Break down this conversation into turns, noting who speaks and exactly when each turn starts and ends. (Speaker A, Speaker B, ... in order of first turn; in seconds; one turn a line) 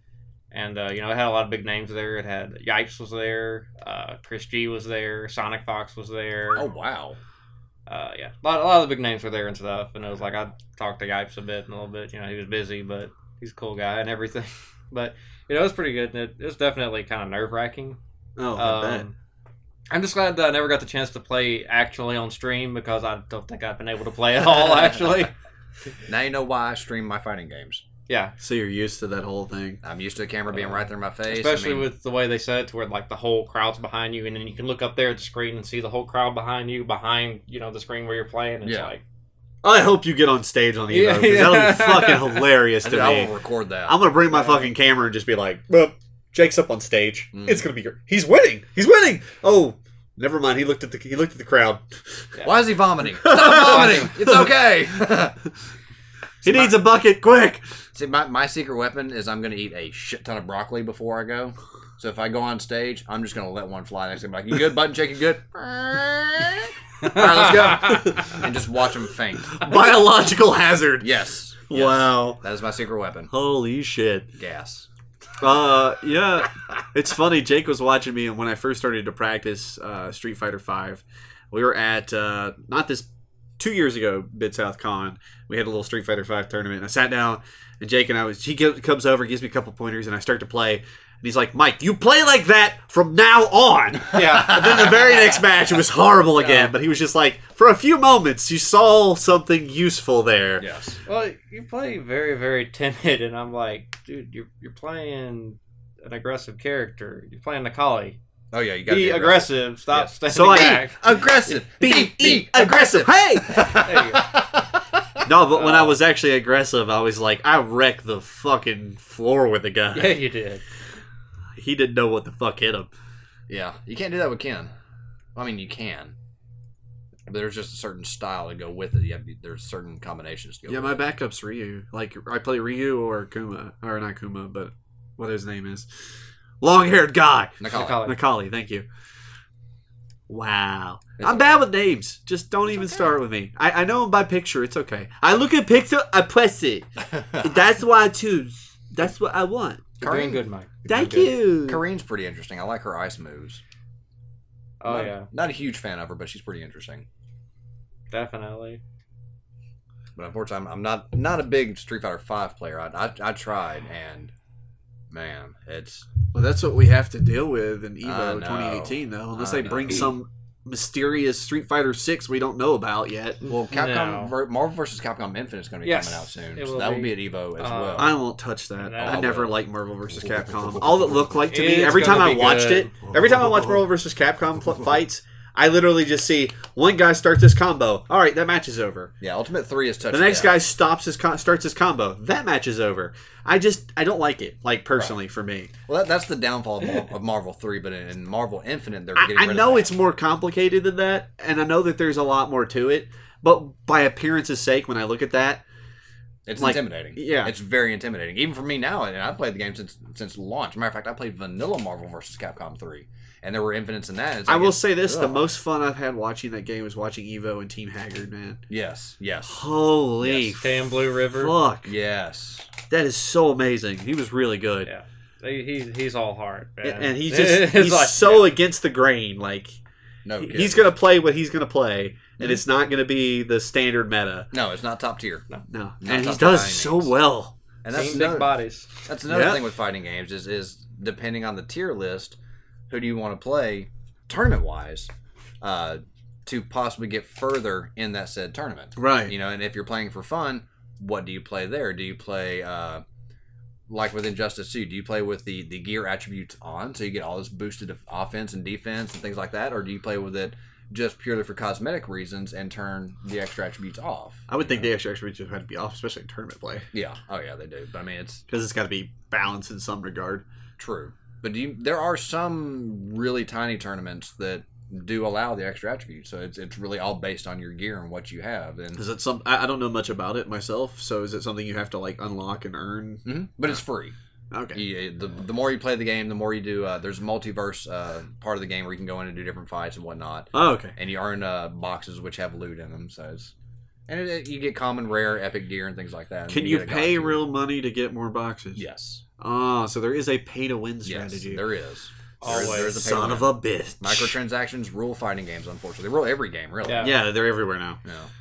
Speaker A: 0.5-6.7
Speaker B: 6.5-7.2
Speaker A: 7.9-18.0
Speaker C: 18.4-19.1
Speaker A: 18.6-19.1
Speaker A: 19.9-25.3
Speaker B: 26.1-27.8
Speaker A: 28.1-28.4
Speaker C: 28.4-29.8
Speaker B: 29.8-31.9
Speaker A: 31.3-39.0
Speaker B: 38.6-38.9
Speaker C: 39.6-43.3
Speaker A: 40.9-42.5
Speaker B: 42.8-44.0
Speaker C: 43.9-51.8
Speaker A: 44.3-44.7
Speaker B: 47.3-47.6
Speaker B: 52.4-55.4
Speaker C: 53.2-54.1
Speaker A: 53.6-54.1
Speaker B: 56.4-56.8
Speaker C: 56.4-57.6
Speaker B: 57.9-69.6
Speaker C: 69.5-71.1
Speaker B: 71.0-73.3
Speaker C: 71.7-72.4
Speaker C: 73.3-74.3
Speaker B: 74.4-74.9
Speaker C: 75.4-100.7
Speaker A: 94.2-94.6
Speaker B: 94.3-95.2
Speaker A: 96.4-96.7
Speaker B: 100.6-101.0
Speaker A: 101.1-108.2
Speaker B: 108.5-115.2
Speaker A: 108.9-111.0
Speaker C: 110.3-113.8
Speaker A: 113.8-114.2
Speaker C: 115.2-120.2
Speaker A: 115.5-116.0
Speaker A: 119.9-120.6
Speaker C: 121.6-122.9
Speaker B: 123.5-124.7
Speaker B: 125.3-126.2
Speaker B: 127.3-131.0
Speaker C: 130.7-135.9
Speaker C: 136.6-138.9
Speaker B: 137.6-138.0
Speaker A: 137.6-138.2
Speaker C: 140.3-149.8
Speaker B: 141.2-141.6
Speaker B: 147.2-147.5
Speaker A: 150.0-151.3
Speaker B: 150.0-153.6
Speaker C: 150.9-151.8
Speaker A: 154.8-155.3
Speaker B: 154.9-157.1
Speaker A: 158.1-158.8
Speaker B: 160.2-164.3
Speaker B: 165.1-166.1
Speaker C: 166.3-173.4
Speaker B: 168.0-170.1
Speaker B: 173.4-178.2
Speaker A: 173.7-174.3
Speaker A: 175.8-178.2
Speaker C: 178.0-189.1
Speaker A: 178.8-179.5
Speaker B: 179.0-179.6
Speaker A: 181.5-182.9
Speaker B: 189.2-190.6
Speaker C: 190.1-195.7
Speaker B: 195.9-199.9
Speaker C: 199.2-205.6
Speaker B: 206.5-215.5
Speaker C: 206.6-207.5
Speaker C: 214.5-218.6
Speaker B: 218.7-219.6
Speaker C: 219.5-221.9
Speaker B: 220.2-220.5
Speaker A: 220.6-221.5
Speaker B: 221.8-222.7
Speaker C: 222.9-224.9
Speaker A: 224.9-228.5
Speaker C: 226.8-229.8
Speaker B: 230.2-230.9
Speaker C: 230.4-234.5
Speaker B: 234.5-235.4
Speaker C: 235.7-237.6
Speaker B: 236.0-237.1
Speaker B: 237.8-238.5
Speaker A: 237.9-238.9
Speaker B: 239.1-242.4
Speaker C: 239.3-239.7
Speaker B: 242.9-245.1
Speaker B: 245.6-253.0
Speaker C: 249.0-249.3
Speaker B: 253.9-264.8
Speaker C: 264.5-266.9
Speaker B: 266.9-268.4
Speaker C: 268.5-270.4
Speaker B: 270.8-279.0
Speaker C: 278.9-283.3
Speaker B: 283.2-284.2
Speaker C: 284.5-284.8
Speaker B: 284.7-293.5
Speaker C: 290.5-290.9
Speaker B: 294.1-297.4
Speaker C: 296.5-298.8
Speaker B: 298.8-299.2
Speaker C: 299.4-301.6
Speaker B: 301.1-307.1
Speaker A: 302.4-303.1
Speaker C: 302.5-304.4
Speaker A: 306.8-307.1
Speaker C: 307.0-308.0
Speaker B: 308.1-308.3